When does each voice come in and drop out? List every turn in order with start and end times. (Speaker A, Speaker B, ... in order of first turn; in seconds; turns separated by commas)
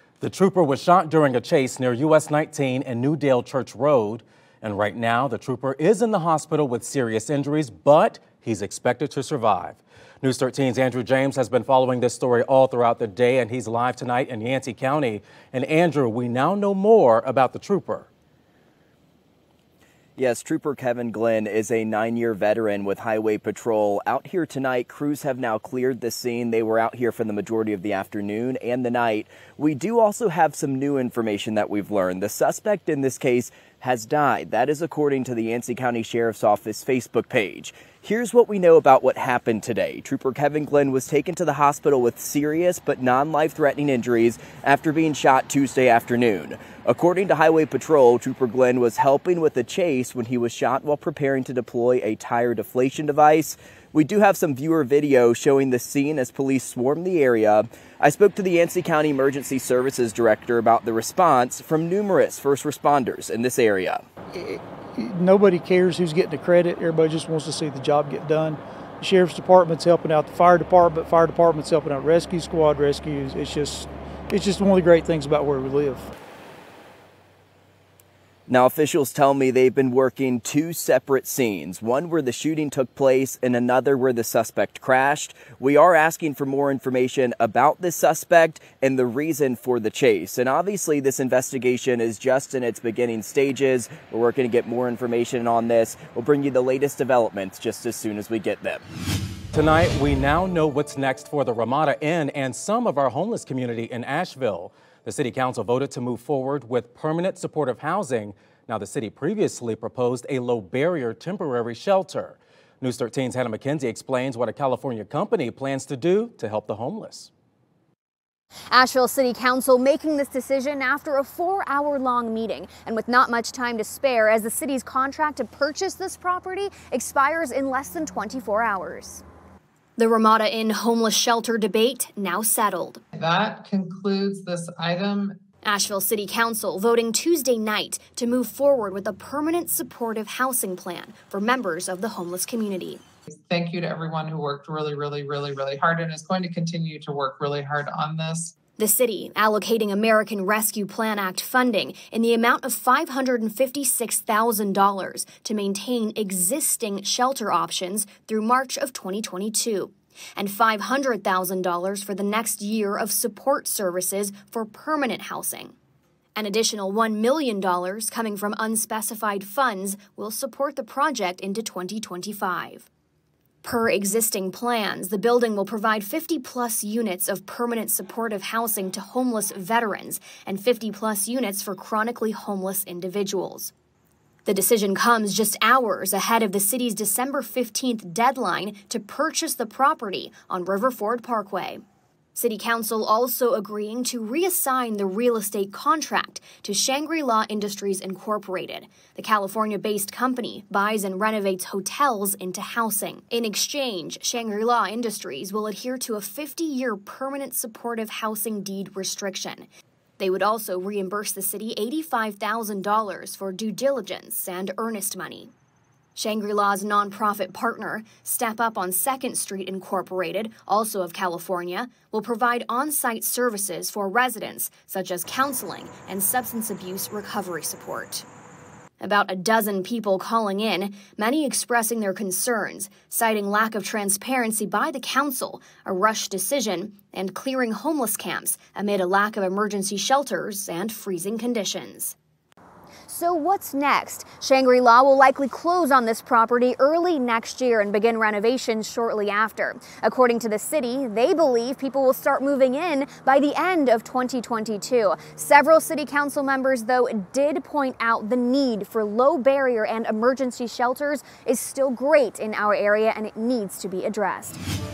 Speaker A: 0.2-18.1, Speaker B: 20.2-64.0, Speaker C: 64.4-76.1, Speaker B: 78.5-98.8, Speaker A: 99.5-117.3, Speaker D: 118.7-129.2, Speaker D: 130.0-133.0, Speaker E: 133.1-135.4, Speaker D: 135.7-143.0, Speaker E: 143.3-148.5, Speaker D: 148.8-165.7, Speaker D: 166.4-172.9, Speaker D: 173.6-183.7, Speaker D: 184.5-191.8, Speaker D: 192.3-209.7, Speaker D: 210.2-215.5, Speaker D: 216.2-228.3, Speaker D: 229.0-242.2, Speaker D: 243.1-264.6